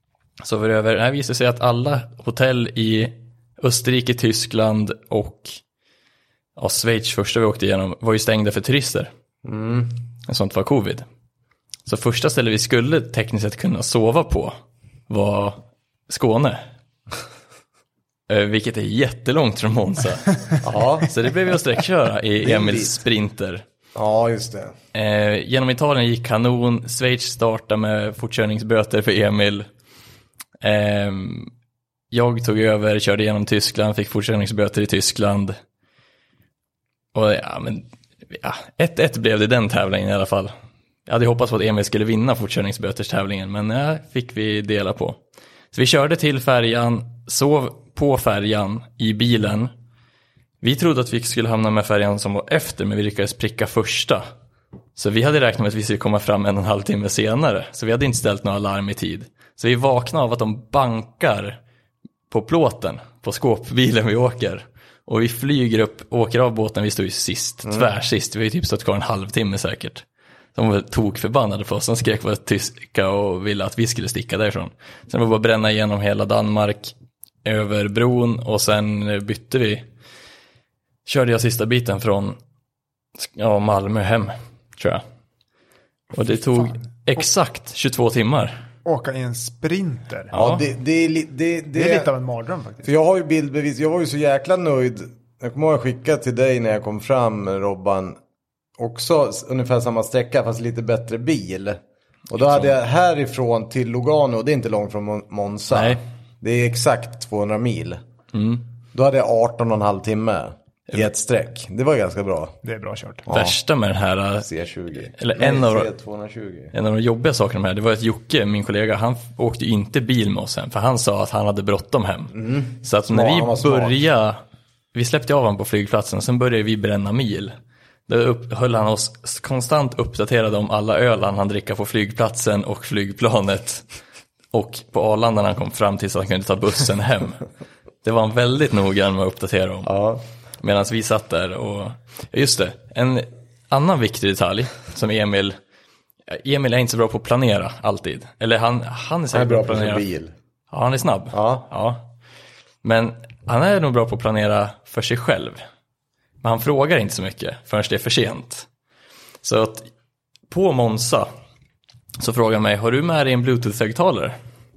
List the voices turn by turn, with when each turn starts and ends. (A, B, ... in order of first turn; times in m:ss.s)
0:00.4-0:05.6 A
0:06.6-0:09.1 A
0:09.4-0:09.9 B
0:10.3-0:11.0 A
0:11.9-0:14.5 A
0:15.1-0:16.6 A
0:18.3-0:23.6 A
0:20.6-0:21.1 B
0:22.4-0:23.0 B
0:23.9-0:24.8 B
0:24.9-0:29.7 A
0:30.6-0:31.5 A
0:32.1-0:35.6 A
0:37.1-0:40.5 A
0:41.1-0:45.2 A
0:45.7-0:49.7 A
0:50.6-0:54.2 A
0:55.0-1:01.6 A
1:02.3-1:19.8 A
1:21.0-1:22.4 A
1:23.2-1:25.0 A
1:26.1-1:28.6 A
1:28.8-1:30.4 C
1:30.3-1:30.6 A
1:30.3-1:32.1 B
1:31.7-1:32.9 C
1:32.8-1:38.2 B
1:38.8-1:41.8 B
1:42.3-1:48.0 B
1:42.4-1:42.7 A
1:45.7-1:46.0 A
1:48.3-1:48.6 A
1:48.9-1:52.6 B
1:52.6-1:53.2 C
1:53.2-1:53.6 B
1:53.3-1:54.5 A
1:54.4-1:56.7 B
1:55.1-1:55.9 A
1:56.7-2:04.4 A
2:02.3-2:04.0 B
2:04.9-2:07.5 A
2:08.1-2:13.8 A
2:14.5-2:17.4 A
2:18.0-2:19.9 A
2:19.8-2:20.2 B
2:20.6-2:25.6 A
2:26.3-2:30.0 A
2:29.3-2:30.3 B
2:30.7-2:32.1 A
2:31.3-2:31.7 B
2:32.8-2:35.6 A
2:36.4-2:38.7 A
2:39.4-2:39.9 A
2:40.5-2:41.3 A
2:42.2-2:44.4 A